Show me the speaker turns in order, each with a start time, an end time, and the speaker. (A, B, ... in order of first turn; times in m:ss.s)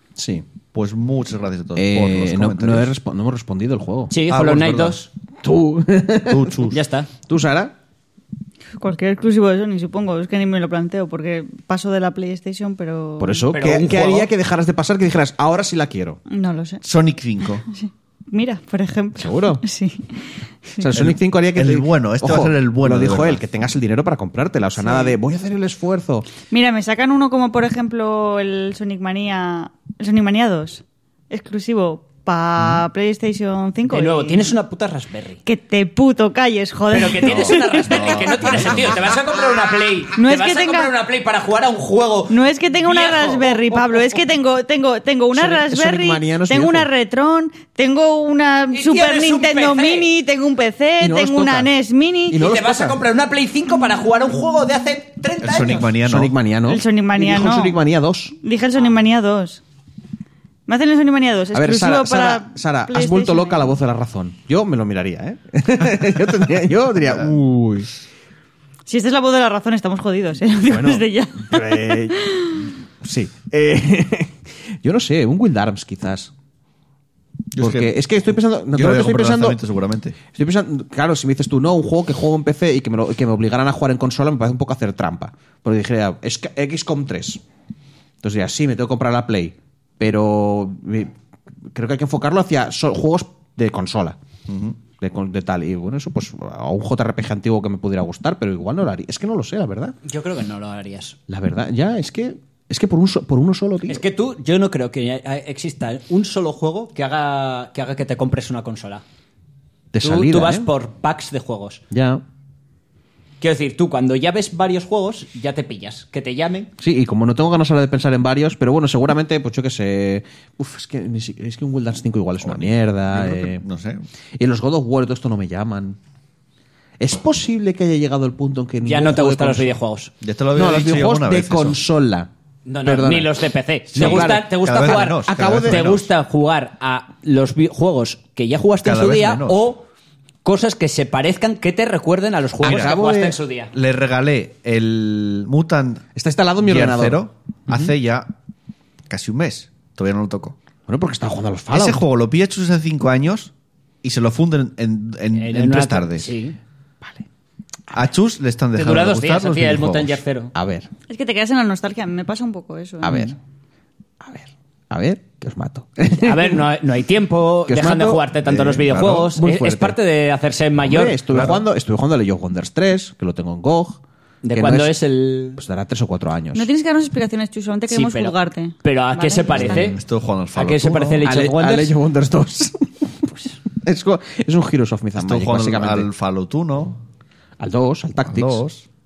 0:00.2-0:00.4 A
0:00.7-0:02.9 B
0:01.8-0:04.1 A
0:04.1-0:05.1 C
0:04.3-0:05.1 B
0:05.4-0:06.7 A
0:06.2-0:06.8 B
0:06.7-0:07.1 C
0:07.3-0:07.7 A
0:08.8-0:13.4 D
0:13.2-0:16.2 A
0:13.5-0:14.3 C
0:16.3-0:16.8 D
0:16.8-0:17.6 B
0:17.7-0:20.8 D
0:19.2-0:19.6 A
0:20.8-0:26.3 A
0:20.9-0:23.4 B
0:24.8-0:25.2 D
0:26.5-0:34.5 D
0:33.9-0:35.4 C
0:35.4-0:38.7 D
0:36.9-0:43.9 C
0:37.8-0:39.0 B
0:40.2-0:40.9 D
0:42.3-0:52.4 D
0:45.3-0:46.9 A
0:48.7-0:50.1 C
0:51.0-0:51.7 A
0:52.3-0:53.0 A
0:52.3-0:55.9 C
0:55.4-0:56.3 B
0:56.0-0:58.4 A
0:56.6-0:57.8 D
0:58.4-0:59.6 D
1:00.7-1:03.6 D
1:01.5-1:07.4 A
1:07.0-1:07.9 B
1:08.9-1:12.7 D
1:10.7-1:16.3 A
1:17.5-1:20.2 B
1:17.6-1:19.6 A
1:20.3-1:27.4 A
1:28.2-1:31.1 A
1:31.7-1:34.2 A
1:34.5-1:34.8 B
1:35.0-1:39.9 A
1:40.0-1:41.2 C
1:41.3-1:44.0 A
1:43.9-1:49.0 C
1:49.9-1:50.7 A
1:50.0-1:51.8 C
1:51.9-1:52.2 A
1:53.4-1:56.7 C
1:56.8-2:03.6 A
2:02.4-2:04.0 B
2:04.4-2:06.0 A
2:07.0-2:09.8 A
2:08.8-2:10.1 C
2:10.2-2:11.8 B
2:10.5-2:12.3 A
2:12.7-2:19.8 C
2:12.8-2:13.3 A
2:13.9-2:15.8 A
2:13.9-2:16.1 B
2:18.8-2:19.6 B
2:20.4-2:23.7 C
2:22.6-2:23.4 A
2:22.6-2:23.0 B
2:23.7-2:26.0 B
2:26.2-2:27.8 A
2:26.6-2:28.3 B
2:29.1-2:30.6 B
2:30.9-2:32.0 A
2:31.7-2:33.5 B
2:34.0-2:36.3 B
2:35.3-2:36.6 C
2:37.9-2:40.2 B
2:38.7-2:40.5 C
2:40.5-2:40.9 A
2:41.1-2:43.3 D
2:43.0-2:43.4 A
2:44.2-2:46.6 A
2:46.2-2:51.2 C
2:47.7-2:48.2 A
2:48.4-2:49.3 B
2:48.9-2:50.0 A
2:50.8-2:54.0 A
2:51.3-2:51.6 B
2:54.4-2:55.6 C
2:54.5-2:54.9 A
2:55.6-2:56.7 A
2:56.5-2:59.9 D
2:57.9-3:00.0 C
2:59.5-3:01.2 B
3:00.5-3:01.9 C
3:01.2-3:06.1 A
3:05.2-3:07.0 B
3:07.6-3:08.6 A
3:08.2-3:08.8 B